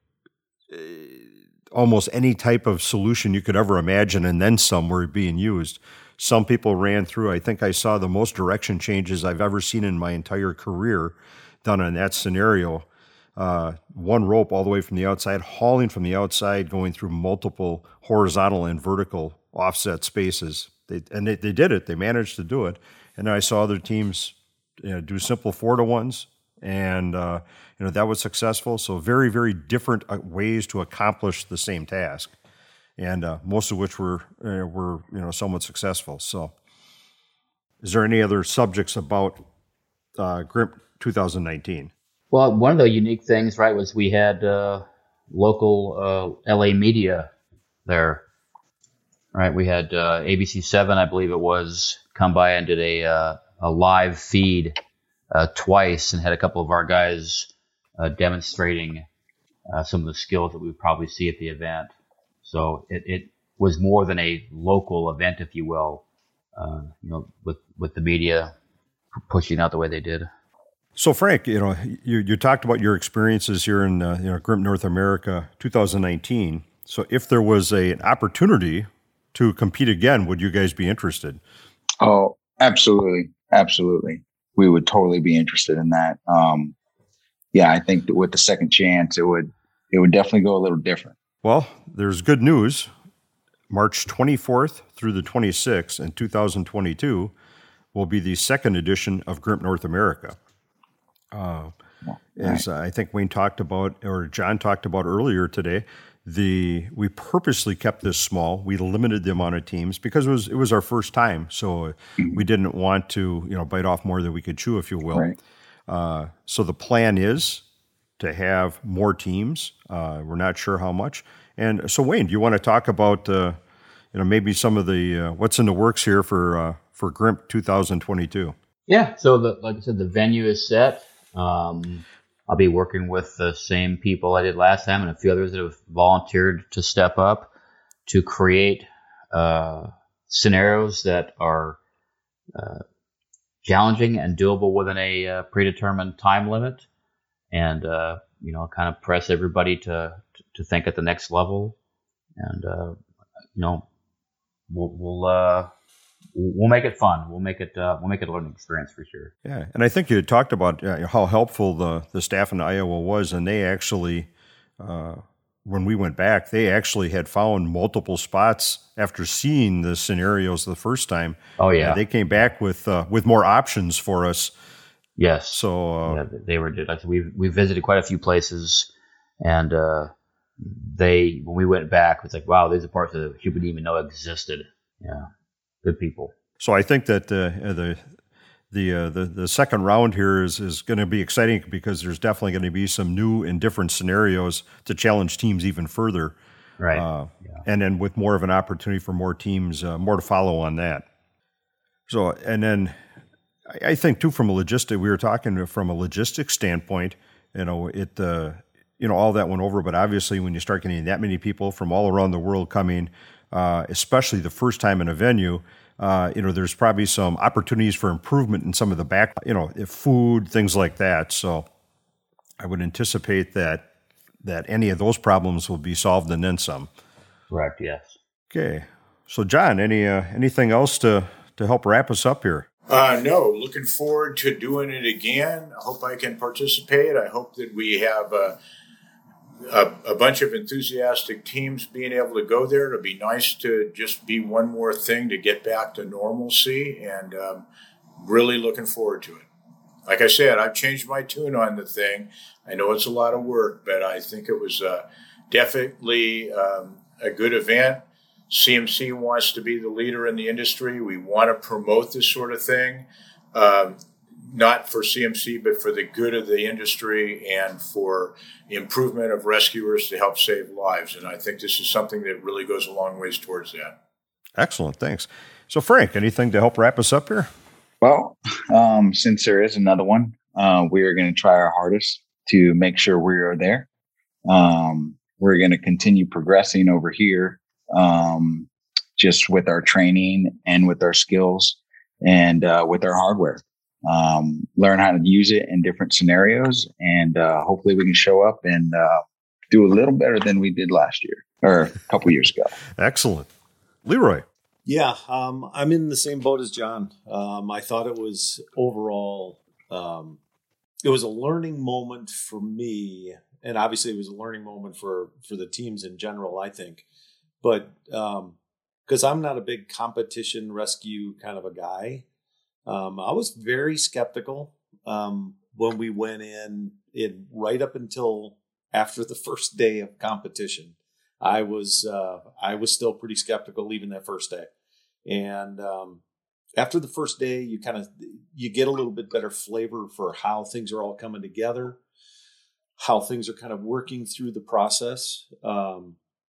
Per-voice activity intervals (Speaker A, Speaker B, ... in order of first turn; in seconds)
Speaker A: 0.7-32.3, 33.0-36.5, 37.8-39.4, 40.2-41.9, 71.0-81.4, 91.4-92.9, 93.7-97.3, 97.9-100.4, 101.3-101.7, 102.3-115.3, 115.9-117.6, 118.2-123.6, 124.1-128.5, 159.4-174.5, 175.5-176.2, 186.6-188.0, 188.7-196.3, 196.9-201.0, 202.1-203.0, 203.7-221.7, 222.6-223.8, 224.4-226.9, 228.5-232.7, 274.6-277.5, 303.0-303.5, 304.0-304.4
Speaker B: 42.3-47.3, 47.9-48.2, 49.3-54.7, 55.3-59.0, 59.7-61.9, 62.4-66.0, 66.5-68.5, 69.3-70.3, 128.9-137.5, 138.1-141.8, 142.5-142.8, 143.6-146.8, 147.5-151.8, 152.4-153.0, 153.5-153.8, 154.7-155.7, 156.3-159.3, 171.6-172.0, 175.2-178.9, 179.4-185.3, 185.8-186.3, 196.8-197.6, 227.5-228.2
Speaker C: 82.0-86.7, 87.5-91.1, 102.1-102.6, 278.0-283.9, 284.5-302.7
Speaker D: 232.9-238.6, 239.7-247.6, 248.2-249.4, 250.1-273.9
Speaker E: 304.9-310.4, 311.0-317.0, 317.6-322.2, 322.9-334.7, 335.2-336.2, 336.8-342.0, 343.0-346.1